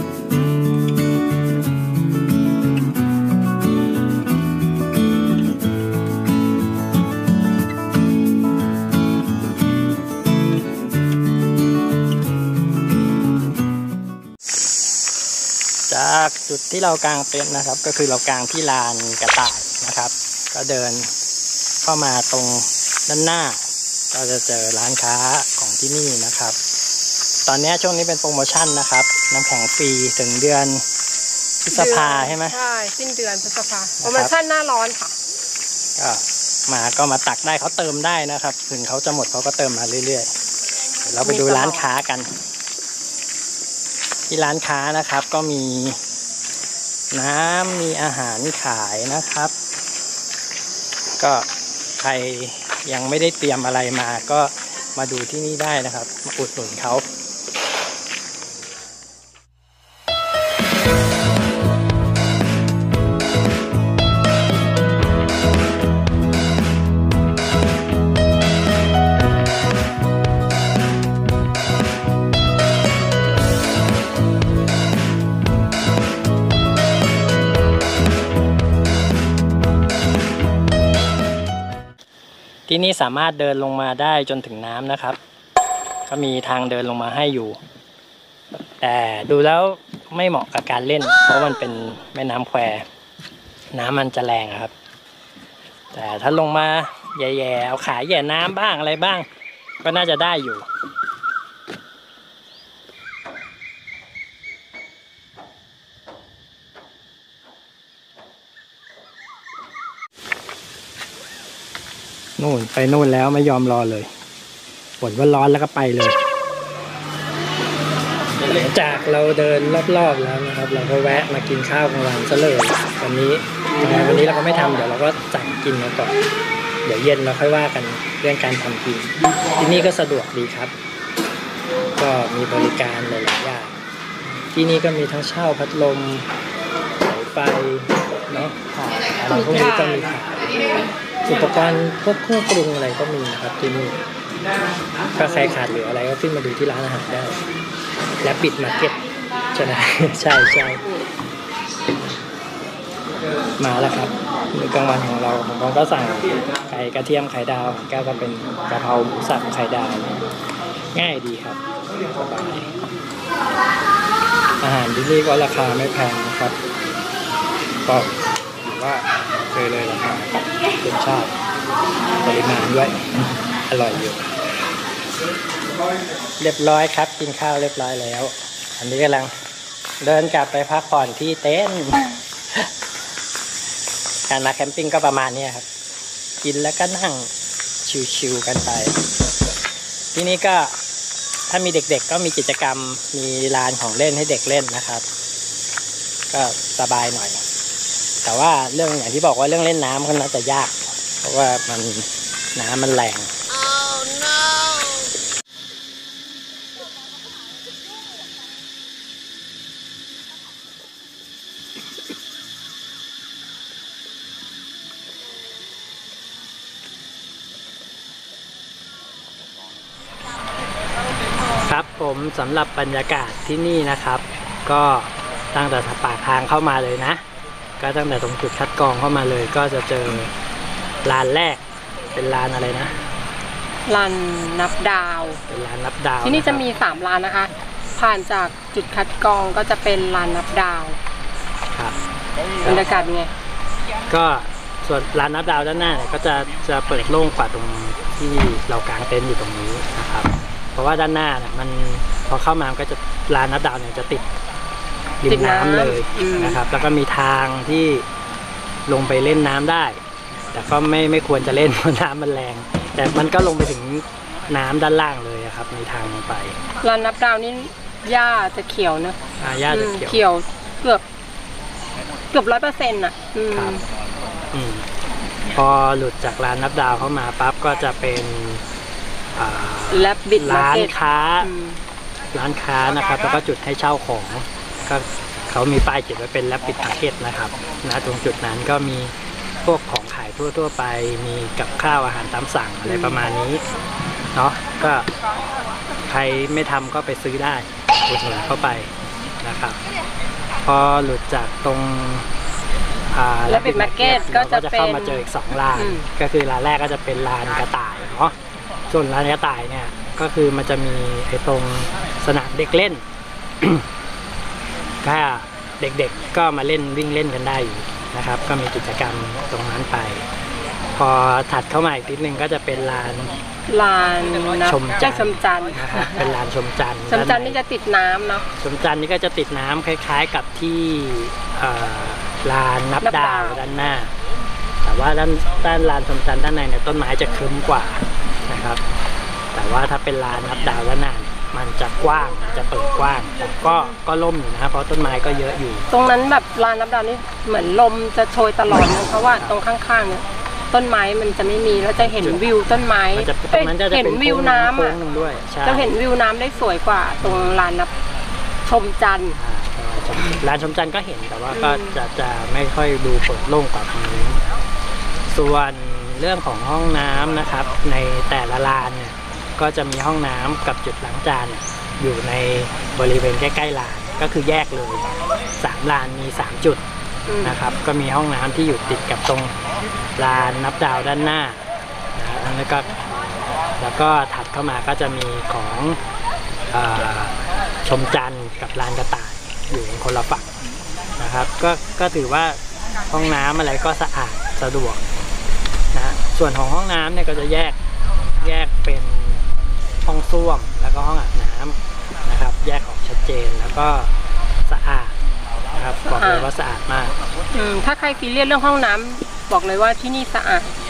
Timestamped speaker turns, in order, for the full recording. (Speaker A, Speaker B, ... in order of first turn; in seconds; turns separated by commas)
Speaker A: 15.9-21.1, Speaker A: 21.8-26.6, Speaker A: 27.4-30.8, Speaker A: 31.6-32.6, Speaker B: 31.7-35.1, Speaker A: 34.0-34.3, Speaker A: 36.0-40.3, Speaker A: 41.0-42.3, Speaker B: 41.2-41.8, Speaker A: 44.3-46.0, Speaker A: 47.1-49.5, Speaker A: 51.2-51.5, Speaker A: 52.0-57.0, Speaker A: 82.7-85.2, Speaker A: 86.1-87.6, Speaker A: 88.8-92.8, Speaker A: 93.7-94.7, Speaker A: 95.9-99.3, Speaker A: 99.8-100.7, Speaker A: 112.4-114.1, Speaker A: 115.0-116.2, Speaker A: 118.4-126.2, Speaker A: 126.8-130.7, Speaker A: 131.9-133.8, Speaker A: 134.5-136.3, Speaker A: 137.0-140.6, Speaker B: 139.3-140.9, Speaker A: 141.2-144.0, Speaker A: 145.1-147.4, Speaker A: 148.2-149.0, Speaker A: 149.5-150.8, Speaker A: 153.6-160.2, Speaker A: 160.9-162.7, Speaker A: 164.6-166.6, Speaker A: 167.8-171.3, Speaker A: 172.2-174.2, Speaker A: 176.4-179.3, Speaker A: 180.0-182.7, Speaker A: 184.3-185.7, Speaker A: 186.4-187.3, Speaker A: 187.8-189.0, Speaker A: 190.1-190.7, Speaker A: 191.5-195.0, Speaker A: 196.3-197.4, Speaker A: 198.2-203.3, Speaker A: 221.6-227.2, Speaker A: 227.8-230.3, Speaker A: 231.0-231.6, Speaker A: 232.1-232.9, Speaker B: 233.8-235.4, Speaker A: 235.5-236.6, Speaker B: 236.2-241.0, Speaker B: 242.6-243.3, Speaker A: 244.1-254.3, Speaker A: 255.2-258.1, Speaker B: 255.3-256.6, Speaker A: 258.9-266.6, Speaker B: 266.8-269.2, Speaker A: 269.4-270.2, Speaker B: 269.7-271.0, Speaker B: 272.3-273.8, Speaker A: 273.5-273.9, Speaker A: 274.5-274.9, Speaker A: 275.5-278.6, Speaker A: 279.4-281.5, Speaker B: 279.9-281.8, Speaker A: 282.3-293.6, Speaker B: 292.9-293.3, Speaker A: 294.3-295.1, Speaker A: 296.1-299.8, Speaker A: 300.6-302.3, Speaker A: 303.1-308.3, Speaker B: 303.5-306.1, Speaker A: 308.9-313.0, Speaker A: 313.6-313.9, Speaker A: 315.0-320.2, Speaker A: 320.9-323.4, Speaker B: 323.7-326.2, Speaker A: 324.6-327.6, Speaker B: 327.1-328.4, Speaker A: 328.6-334.1, Speaker B: 333.0-333.6, Speaker A: 334.8-338.8, Speaker A: 339.5-345.9, Speaker B: 345.9-355.0, Speaker A: 352.0-352.4, Speaker A: 353.1-355.9, Speaker B: 355.6-357.9, Speaker A: 357.2-357.6, Speaker B: 358.6-359.4, Speaker A: 359.4-364.4, Speaker B: 361.5-362.0, Speaker A: 365.3-375.1, Speaker A: 375.6-376.8, Speaker B: 377.3-377.6, Speaker A: 377.4-379.5, Speaker A: 380.1-381.6, Speaker A: 382.1-382.9, Speaker A: 383.8-386.0, Speaker A: 386.7-390.6, Speaker A: 391.2-395.0, Speaker A: 395.9-397.8, Speaker A: 398.4-399.4, Speaker A: 400.0-404.1, Speaker A: 404.6-405.2, Speaker A: 405.7-407.1, Speaker B: 406.1-406.5, Speaker B: 407.5-410.7